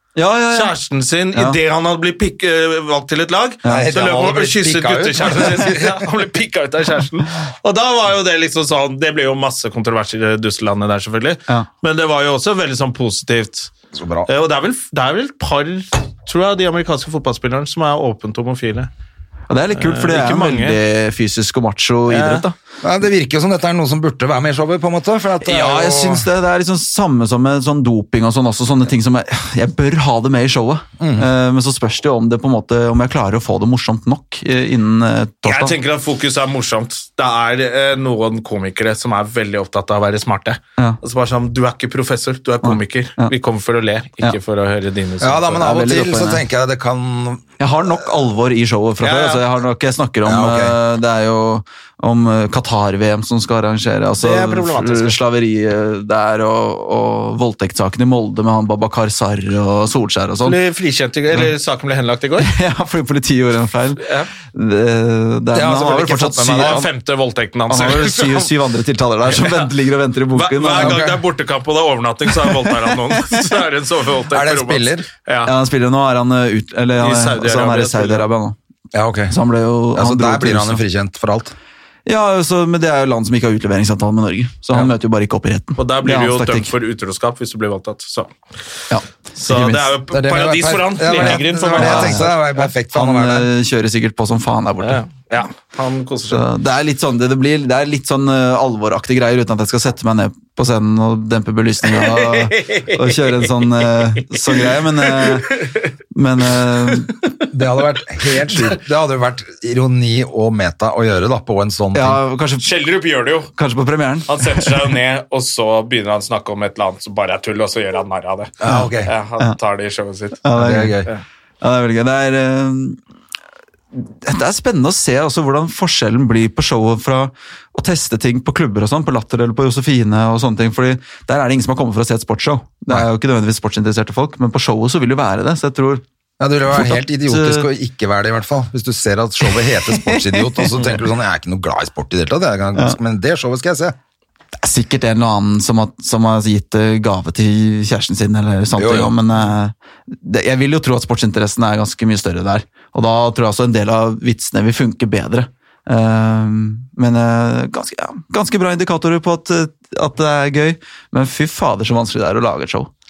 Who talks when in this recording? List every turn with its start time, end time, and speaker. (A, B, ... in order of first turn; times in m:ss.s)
0:00.2-0:00.7 A
0:00.5-0:13.7 B
0:03.6-0:06.0 C
0:13.9-0:14.3 C
0:14.2-0:18.9 B
0:19.5-0:22.5 A
0:19.8-0:20.8 B
0:22.1-0:22.4 B
0:22.8-0:26.3 C
0:25.4-0:35.8 A
0:31.0-0:31.3 C
0:35.4-0:45.6 B
0:42.6-0:43.3 A
0:45.2-0:47.5 C
0:45.5-0:46.4 A
0:47.6-1:00.6 A
0:49.0-0:49.4 B
0:50.2-0:50.8 C
0:54.2-0:55.2 B
1:00.4-1:02.5 B
1:02.4-1:06.9 A
1:04.0-1:04.3 B
1:05.5-1:06.9 C
1:05.6-1:08.5 B
1:07.7-1:11.0 A
1:09.2-1:09.7 B
1:10.3-1:15.5 B
1:10.8-1:11.2 C
1:14.3-1:15.0 C
1:15.4-1:18.6 A
1:17.0-1:18.2 B
1:18.9-1:19.3 C
1:19.3-1:20.8 A
1:19.9-1:21.5 C
1:22.0-1:26.7 A
1:25.8-1:28.3 B
1:28.9-1:29.9 A
1:29.4-1:32.4 B
1:30.1-1:33.5 C
1:31.2-1:32.2 A
1:32.9-1:35.0 A
1:34.8-1:36.4 B
1:36.3-1:45.6 A
1:41.9-1:43.5 B
1:44.5-1:45.8 B
1:46.1-1:47.1 A
1:47.5-1:52.2 C
1:48.4-1:48.8 B
1:51.9-1:52.7 A
1:52.6-1:53.5 B
1:53.6-1:54.8 A
1:54.3-2:00.4 B
1:58.6-1:59.1 C
2:00.4-2:01.0 A
2:00.5-2:01.1 C
2:01.6-2:03.0 A
2:03.9-2:16.0 A
2:16.4-2:23.9 C
2:16.7-2:17.7 A
2:19.4-2:20.7 A
2:24.6-2:42.9 A
2:28.8-2:29.1 C